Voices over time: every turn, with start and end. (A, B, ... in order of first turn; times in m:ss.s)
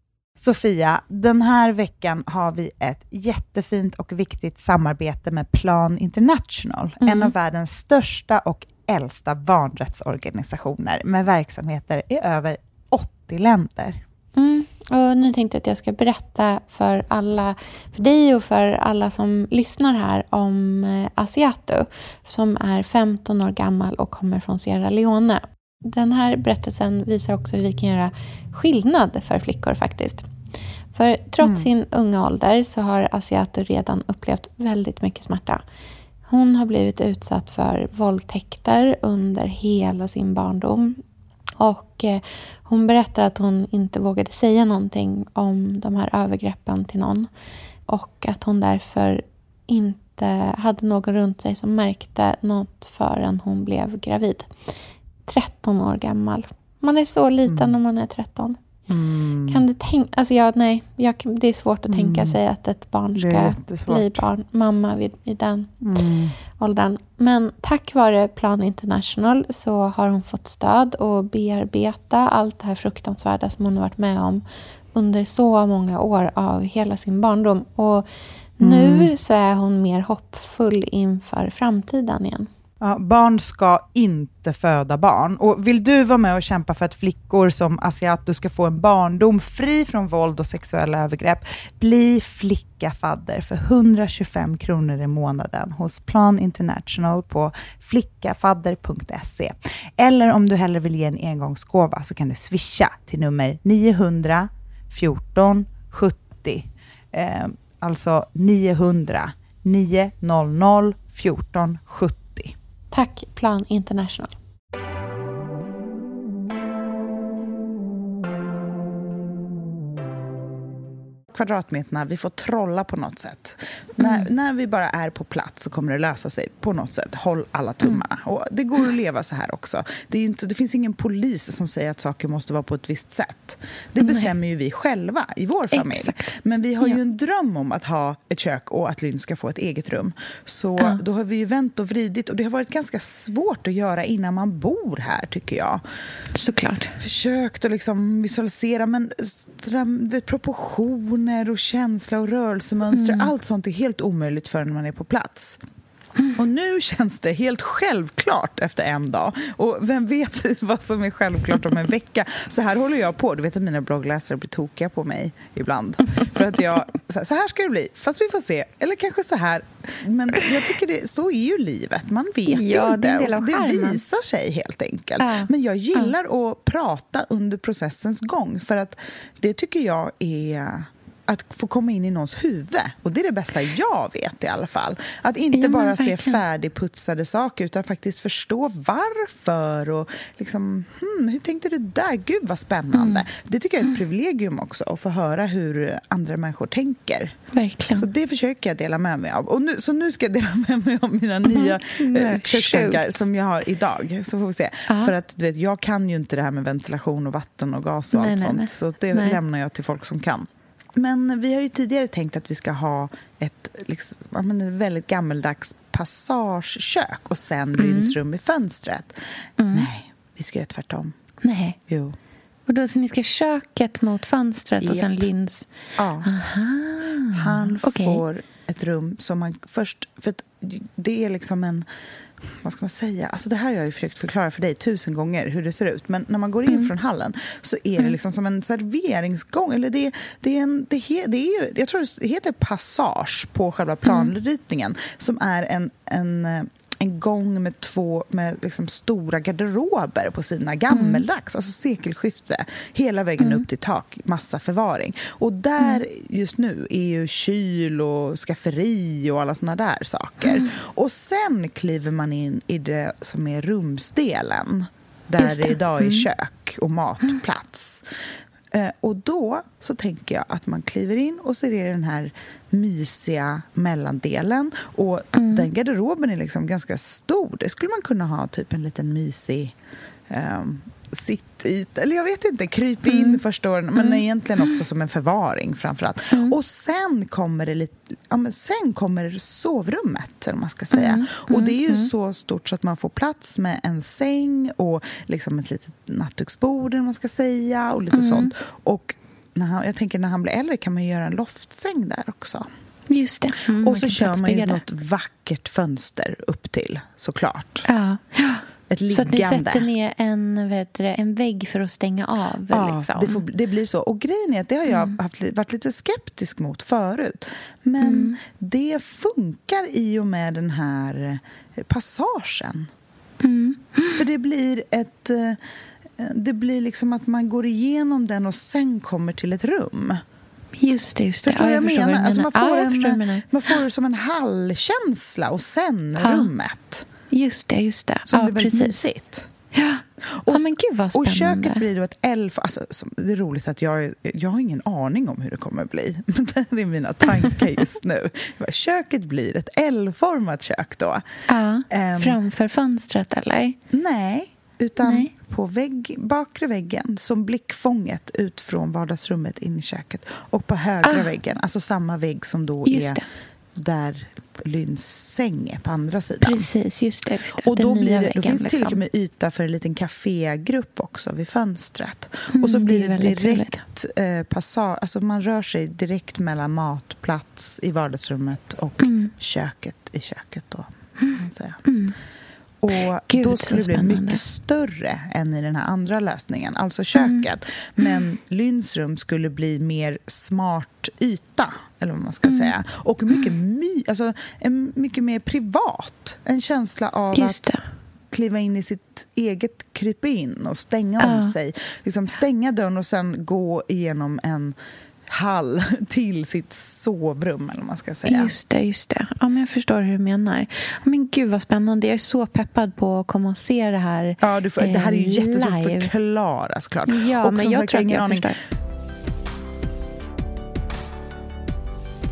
0:00.4-0:14.0 A
0:07.0-0:07.3 B
0:14.4-0:30.3 B
0:30.9-0:35.6 B
0:31.4-0:31.7 A
0:36.3-0:41.0 B
0:41.6-0:47.3 B
0:47.9-0:54.5 B
0:55.3-0:58.6 B
0:57.5-0:57.8 A
0:58.9-0:59.6 A
0:59.5-1:05.8 B
1:01.9-1:02.4 A
1:03.2-1:04.2 A
1:05.8-1:06.4 A
1:06.6-1:18.1 B
1:18.6-1:22.5 B
1:18.6-1:19.1 A
1:22.8-1:52.6 A
1:52.9-1:54.3 B
2:01.3-2:25.8 A
2:04.0-2:04.3 B
2:14.0-2:14.3 B
2:15.7-2:17.0 B
2:26.4-2:27.0 B
2:27.0-2:35.6 A
2:32.9-2:33.3 B
2:36.4-3:17.4 A
2:52.5-2:54.0 B
2:55.2-2:56.1 B
3:05.5-3:06.4 B
3:12.9-3:13.3 B
3:17.5-3:18.1 B
3:18.0-3:39.2 A
3:21.5-3:23.2 B
3:28.1-3:29.4 B
3:37.8-3:38.2 B
3:39.6-3:39.9 B
3:39.7-3:41.2 A
3:41.4-3:41.8 B
3:41.9-3:42.2 A
3:42.7-3:45.7 B
3:44.8-3:45.2 A
3:46.0-3:46.3 A
3:46.2-3:48.2 B
3:47.3-3:51.9 A
3:52.4-4:28.1 A
4:04.0-4:04.3 B
4:10.9-4:11.2 B
4:13.4-4:13.6 B
4:20.4-4:20.7 B
4:25.4-4:26.3 B
4:28.7-4:39.8 A
4:35.4-4:35.7 B
4:40.3-5:02.7 A
4:43.1-4:43.4 B
4:44.0-4:44.8 B
4:50.9-4:52.1 B
4:58.1-4:58.5 B
5:03.1-5:04.8 B
5:03.8-5:07.9 A
5:07.9-5:13.4 B
5:08.9-5:09.9 A
5:12.7-5:22.9 A
5:14.9-5:15.2 B
5:18.0-5:18.4 B
5:23.4-5:24.2 B
5:24.1-5:25.6 A
5:26.2-5:30.2 A
5:30.8-5:33.5 B
5:31.4-5:37.1 A
5:36.2-5:36.5 B
5:37.3-5:39.0 B
5:38.3-5:39.5 A
5:39.7-5:41.8 B
5:40.3-5:51.2 A
5:51.5-5:53.8 B
5:51.9-5:52.4 A
5:53.9-6:03.2 A
5:55.0-5:55.3 B
6:02.9-6:03.2 B
6:03.8-6:06.7 A
6:06.4-6:09.0 B
6:07.6-6:21.8 A
6:12.5-6:13.8 B
6:19.0-6:19.3 B
6:21.2-6:22.2 B
6:22.8-6:37.7 A
6:23.3-6:24.4 B
6:27.2-6:27.5 B
6:32.4-6:32.7 B
6:37.3-6:37.8 B
6:38.3-6:44.8 A
6:41.2-6:41.6 B
6:45.3-6:48.5 A
6:48.3-6:56.1 B
6:54.4-6:58.5 A
6:57.1-6:58.6 B